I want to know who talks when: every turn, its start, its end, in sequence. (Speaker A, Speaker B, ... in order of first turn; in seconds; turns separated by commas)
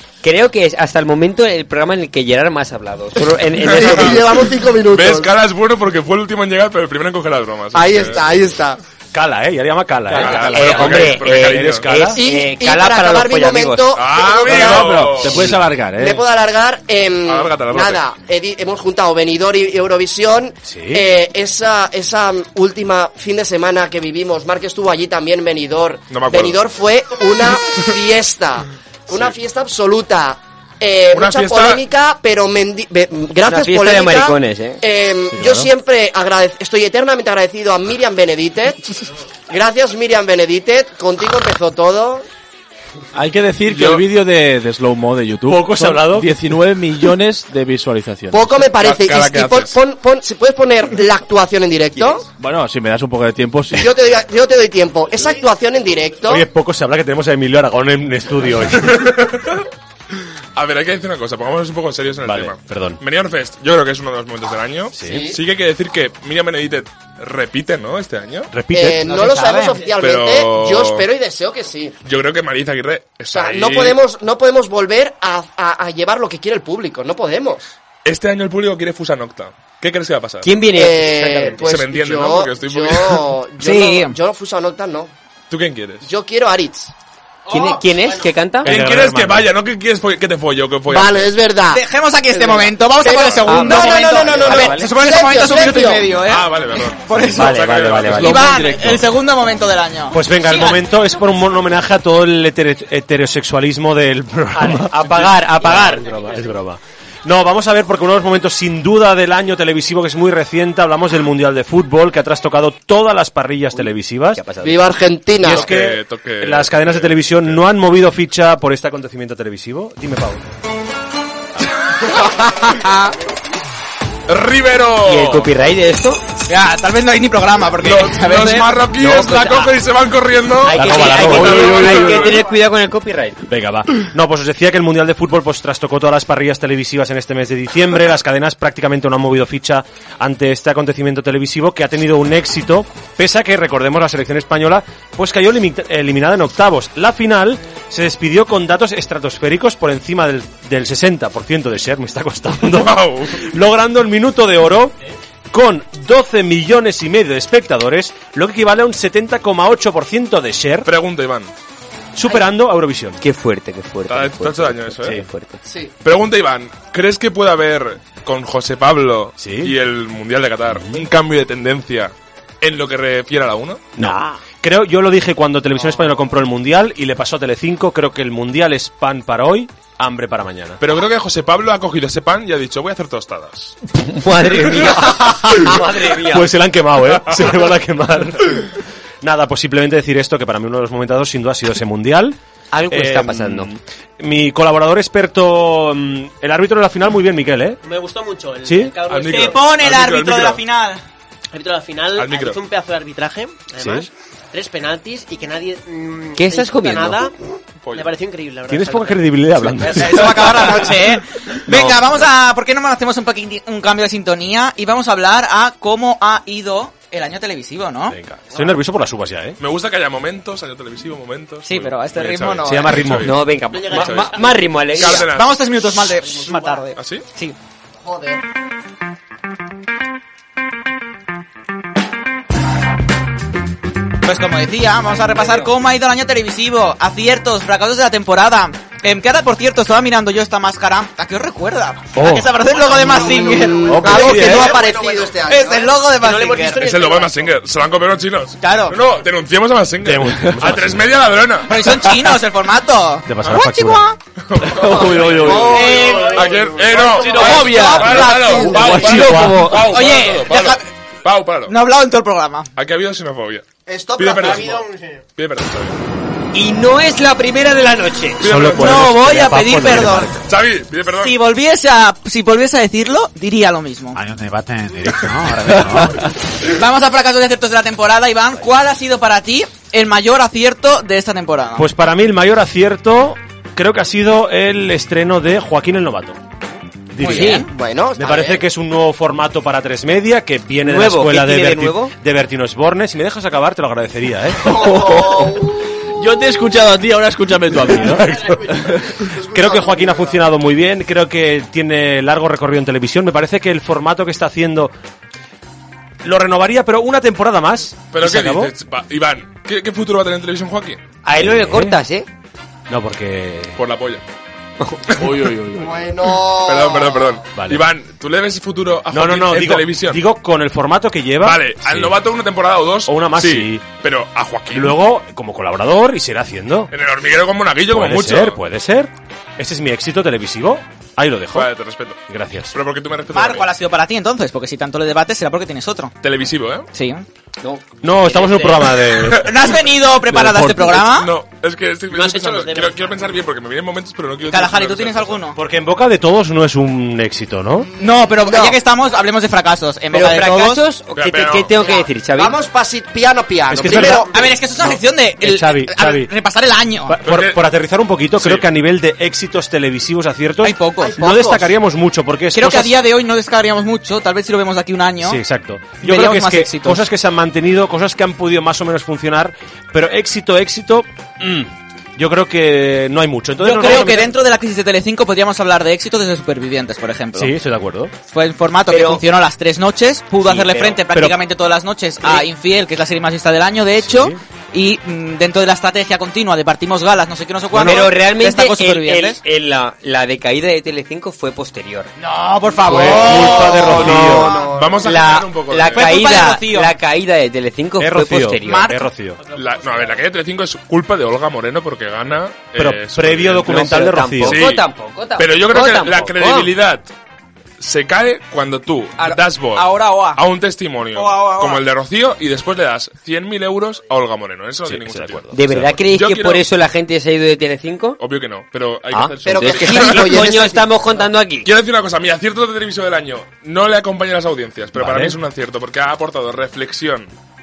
Speaker A: 0.2-4.2, Speaker B: 3.6-4.2, Speaker C: 3.7-5.4, Speaker B: 4.9-8.4, Speaker C: 7.7-8.8, Speaker D: 9.1-12.2, Speaker E: 10.1-11.0, Speaker B: 10.1-11.9, Speaker A: 10.3-14.0, Speaker C: 12.1-38.8, Speaker B: 13.9-15.5, Speaker E: 14.4-16.2, Speaker B: 17.2-18.0, Speaker D: 20.6-21.0, Speaker B: 26.1-26.6, Speaker B: 31.1-31.8, Speaker A: 33.4-34.8, Speaker E: 35.3-35.7, Speaker C: 39.5-42.2, Speaker E: 43.1-48.5, Speaker B: 43.6-44.0, Speaker D: 45.5-46.3, Speaker C: 48.3-52.2, Speaker B: 48.5-49.8, Speaker E: 52.4-53.9, Speaker C: 53.7-56.4, Speaker D: 56.3-59.0, Speaker B: 58.8-59.6, Speaker B: 60.5-68.5, Speaker D: 62.2-63.0, Speaker D: 64.9-65.3, Speaker C: 65.0-65.4, Speaker D: 68.5-69.1, Speaker C: 68.7-72.0, Speaker F: 69.0-69.8, Speaker B: 70.0-71.0, Speaker B: 72.0-74.0, Speaker C: 73.3-77.6, Speaker B: 78.0-80.5, Speaker A: 80.4-81.8, Speaker C: 80.7-85.1, Speaker B: 81.6-83.3, Speaker F: 83.6-84.1, Speaker B: 85.5-86.1, Speaker C: 86.0-86.9, Speaker G: 87.5-88.4, Speaker A: 87.5-88.9, Speaker D: 88.6-89.5, Speaker B: 88.6-91.3, Speaker C: 90.9-96.2, Speaker F: 91.7-100.8, Speaker A: 93.4-94.9, Speaker B: 96.2-98.3, Speaker A: 97.3-98.4, Speaker E: 98.0-99.0, Speaker D: 100.1-114.4, Speaker A: 104.5-106.2, Speaker A: 114.3-115.0, Speaker C: 114.6-115.7, Speaker B: 115.4-117.6, Speaker D: 115.4-120.4, Speaker B: 124.3-125.5, Speaker A: 125.0-126.2, Speaker F: 126.5-129.7, Speaker B: 127.8-132.3, Speaker A: 129.0-129.4, Speaker A: 130.6-133.4, Speaker D: 130.7-132.1, Speaker E: 131.1-132.4, Speaker D: 133.5-154.9, Speaker B: 152.7-153.4, Speaker D: 155.5-160.9, Speaker B: 160.8-161.5, Speaker D: 162.1-163.2, Speaker A: 163.2-165.6, Speaker B: 164.1-165.2, Speaker C: 165.6-165.9, Speaker B: 166.0-173.8, Speaker D: 169.4-169.7, Speaker D: 170.7-171.1, Speaker A: 174.0-174.4, Speaker D: 174.0-180.8, Speaker B: 180.8-183.8, Speaker A: 184.0-186.5, Speaker D: 186.3-192.4, Speaker A: 192.7-193.7, Speaker D: 192.9-197.8, Speaker G: 197.8-199.6, Speaker D: 198.6-198.9, Speaker B: 199.1-200.6, Speaker F: 199.2-201.0, Speaker G: 201.5-207.3, Speaker B: 202.2-202.6, Speaker D: 203.8-204.1, Speaker A: 206.4-207.3, Speaker B: 207.8-208.1, Speaker G: 207.9-209.4, Speaker D: 208.7-210.8, Speaker F: 209.8-218.2, Speaker D: 211.7-212.2, Speaker D: 218.1-219.6, Speaker B: 219.6-225.7, Speaker F: 221.6-223.1, Speaker D: 222.6-223.4, Speaker A: 223.1-225.3, Speaker G: 223.7-224.7, Speaker F: 225.0-227.5, Speaker G: 225.9-226.9, Speaker B: 226.9-227.2, Speaker C: 228.0-228.4, Speaker F: 234.2-244.8, Speaker A: 235.2-235.7, Speaker D: 242.1-242.5, Speaker C: 242.7-245.9, Speaker G: 242.8-245.4, Speaker E: 243.8-244.7, Speaker F: 245.4-246.8, Speaker G: 246.2-247.5, Speaker B: 246.8-251.8, Speaker F: 248.6-249.0, Speaker D: 250.0-251.1, Speaker F: 251.7-254.2, Speaker D: 253.3-254.1, Speaker B: 254.5-255.4, Speaker E: 254.6-255.9, Speaker C: 254.7-259.3, Speaker G: 255.5-257.2, Speaker F: 255.7-256.5, Speaker B: 256.3-261.8, Speaker E: 257.1-259.9, Speaker F: 257.3-258.7, Speaker D: 259.0-259.8, Speaker F: 259.9-260.9, Speaker F: 261.7-262.7, Speaker B: 262.8-263.6, Speaker C: 263.9-264.9, Speaker B: 264.1-264.8, Speaker G: 264.4-265.2, Speaker B: 265.4-266.0, Speaker A: 266.5-268.5, Speaker B: 268.4-269.2, Speaker D: 268.4-270.4, Speaker F: 268.8-270.3, Speaker B: 270.4-271.3, Speaker F: 271.2-274.2, Speaker H: 274.1-276.3, Speaker E: 275.9-276.3, Speaker F: 276.6-281.9, Speaker D: 281.8-286.4, Speaker D: 287.1-287.6, Speaker F: 287.2-287.7, Speaker C: 287.3-288.6, Speaker D: 288.2-294.8, Speaker A: 290.8-292.1, Speaker E: 294.6-299.1, Speaker C: 294.6-295.8, Speaker D: 298.0-298.8, Speaker C: 298.3-300.4, Speaker D: 299.4-304.9, Speaker D: 306.2-308.7, Speaker B: 308.1-311.0, Speaker A: 311.2-312.3, Speaker D: 311.4-312.0, Speaker D: 312.9-313.8, Speaker B: 313.8-314.2, Speaker E: 315.1-315.9, Speaker C: 315.7-317.4, Speaker B: 316.6-320.2, Speaker D: 317.5-317.8, Speaker D: 319.1-322.1, Speaker B: 321.4-324.9, Speaker D: 323.1-323.8, Speaker D: 324.7-326.9, Speaker B: 326.9-328.6, Speaker D: 327.9-331.7, Speaker B: 331.5-332.2, Speaker D: 332.3-332.8, Speaker B: 332.7-333.7, Speaker F: 333.3-336.1, Speaker B: 336.2-336.9, Speaker F: 336.9-337.2, Speaker A: 337.6-338.9, Speaker D: 338.0-339.5, Speaker B: 339.1-339.5, Speaker F: 339.4-341.3, Speaker D: 340.3-340.9, Speaker B: 341.0-345.4, Speaker G: 342.1-343.0, Speaker F: 344.5-345.6, Speaker D: 345.6-347.9, Speaker F: 348.0-350.8, Speaker A: 350.1-352.6, Speaker B: 351.1-351.7, Speaker C: 351.8-354.4, Speaker D: 353.7-354.3, Speaker F: 353.9-357.1, Speaker D: 355.4-356.3, Speaker D: 357.1-362.9, Speaker B: 357.2-357.6, Speaker B: 358.4-358.6, Speaker F: 360.6-361.1, Speaker C: 361.0-361.7, Speaker F: 362.5-365.4, Speaker D: 365.2-374.3, Speaker F: 366.0-367.0, Speaker F: 373.6-377.5, Speaker D: 377.3-378.1, Speaker F: 378.3-389.4, Speaker A: 378.9-379.2, Speaker A: 380.4-381.0, Speaker D: 384.0-384.4, Speaker D: 387.7-388.0, Speaker A: 387.7-392.1, Speaker F: 392.2-394.6, Speaker D: 392.8-394.5, Speaker C: 392.9-395.3, Speaker B: 393.9-396.4, Speaker A: 394.0-394.4, Speaker A: 395.0-398.9, Speaker F: 395.9-396.9, Speaker D: 398.0-399.4, Speaker F: 398.6-399.1, Speaker G: 399.4-400.2, Speaker B: 399.5-403.8, Speaker D: 402.7-404.7, Speaker A: 403.6-406.7, Speaker B: 404.4-404.9, Speaker B: 405.4-407.1, Speaker B: 407.8-415.5, Speaker F: 409.2-410.4, Speaker F: 411.1-411.8, Speaker D: 414.9-416.0, Speaker A: 415.5-418.2, Speaker B: 416.1-416.6, Speaker B: 418.2-420.4, Speaker A: 419.1-421.7, Speaker C: 419.4-420.9, Speaker B: 421.6-427.3, Speaker D: 424.9-425.4